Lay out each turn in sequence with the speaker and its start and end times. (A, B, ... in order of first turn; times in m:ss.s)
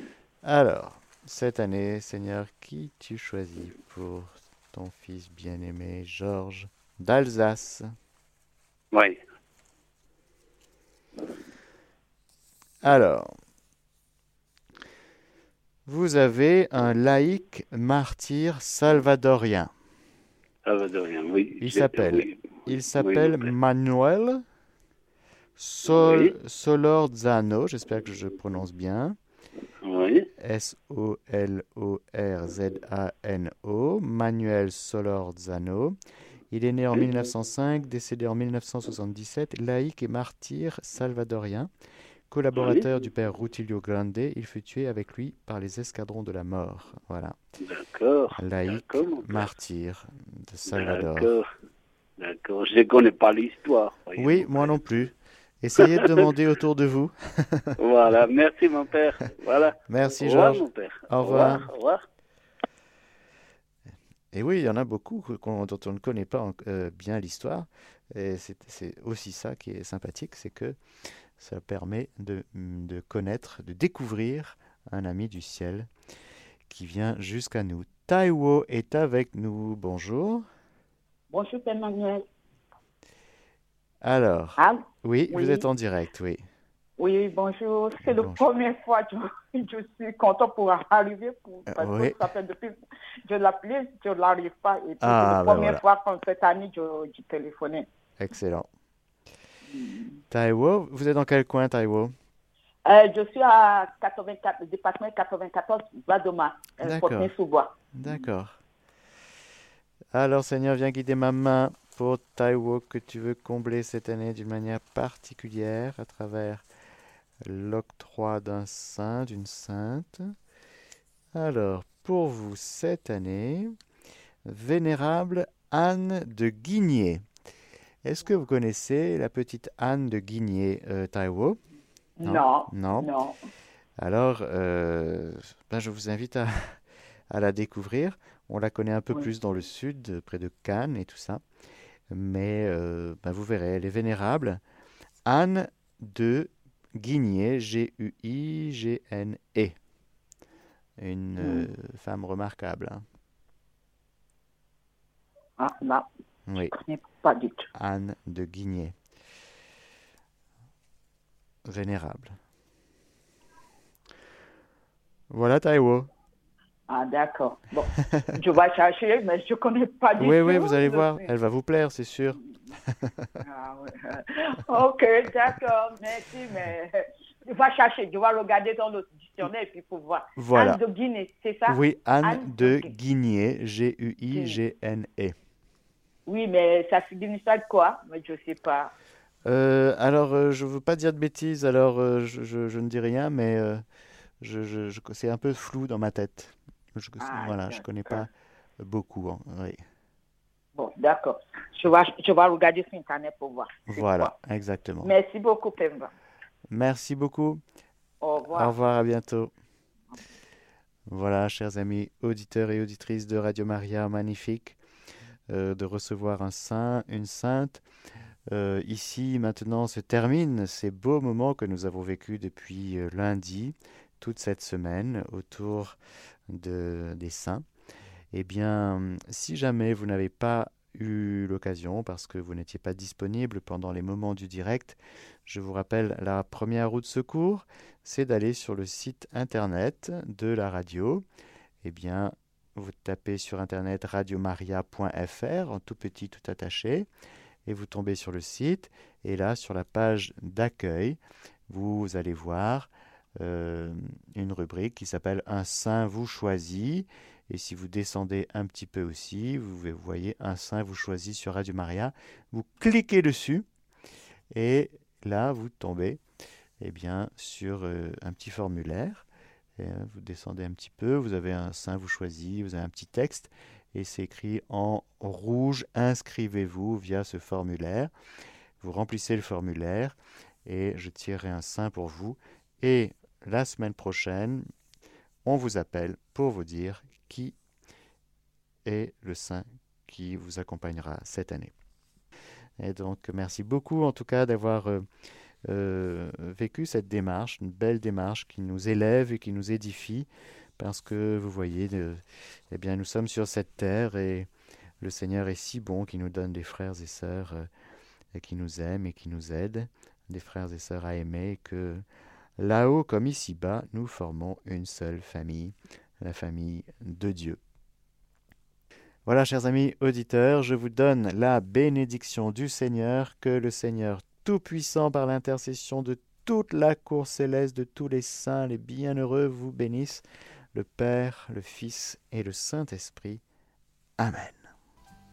0:00.4-0:07.9 A
0:08.9-0:09.2 B
0:12.8-0:13.3 A
0:15.8-0:19.7 A
0:20.6-0:23.5 B
0:21.6-0:24.4 A
0:25.6-0:29.2 A
0:25.8-0:26.3 B
0:29.8-0:30.3 B
0:30.4-0:36.0 A
0:36.5-0:41.7 A
0:42.3-0:47.4 A
0:42.6-0:42.9 B
0:47.6-0:49.5 B
0:48.3-0:51.3 A
0:50.7-0:51.4 B
0:52.2-0:54.8 B
0:54.2-0:57.8 A
0:55.8-0:56.3 B
0:57.8-1:02.0 B
0:59.9-1:01.7 A
1:04.3-1:10.8 A
1:11.4-1:15.9 A
1:16.7-1:20.4 A
1:21.3-1:22.2 C
1:24.0-1:26.4 A
1:24.6-1:25.6 C
1:27.0-1:37.9 C
1:28.0-1:28.4 A
1:31.7-1:32.2 A
1:35.0-1:35.8 A
1:38.2-1:38.7 A
1:39.7-1:40.2 C
1:40.3-1:42.1 A
1:42.8-1:48.1 C
1:46.8-1:47.3 A
1:47.9-1:48.6 A
1:50.1-1:56.6 A
1:57.4-2:00.3 A
2:01.3-2:03.8 A
2:04.4-2:07.2 A
2:08.0-2:11.6 A
2:12.2-2:13.4 C
2:12.2-2:13.1 A
2:14.0-2:16.8 A
2:17.3-2:21.4 A
2:22.1-2:24.6 A
2:25.2-2:29.8 A
2:31.0-2:33.0 A
2:31.4-2:31.7 C
2:35.6-2:36.0 C
2:36.5-2:36.7 A
2:36.6-2:37.7 C
2:37.7-2:38.9 A
2:41.6-2:42.4 A
2:45.3-2:46.1 A
2:46.9-2:51.3 C
2:50.2-2:52.4 A
2:52.9-2:53.3 A
2:53.4-3:02.9 C
3:00.4-3:00.8 A
3:01.7-3:05.3 A
3:04.3-3:04.6 C
3:06.2-3:08.9 C
3:09.4-3:13.8 A
3:14.4-3:19.8 A
3:17.2-3:18.2 C
3:20.7-3:24.3 C
3:23.9-3:25.1 A
3:25.0-3:26.1 C
3:26.7-3:27.6 A
3:28.2-3:28.7 C
3:28.5-3:29.5 A
3:31.1-3:34.8 A
3:35.5-3:37.8 A
3:38.5-3:47.6 A
3:48.3-4:01.2 A
4:01.8-4:07.1 A
4:07.6-4:23.6 A
4:24.5-4:26.2 A
4:26.8-4:29.2 A
4:29.8-4:38.1 A
4:38.8-4:44.6 A
4:45.4-4:47.5 A
4:48.8-4:51.7 A
4:52.8-4:55.0 A
4:55.6-5:04.5 A
5:05.0-5:07.7 A
5:08.3-5:12.0 A
5:12.6-5:17.6 A
5:19.2-5:33.4 A
5:34.2-5:34.6 A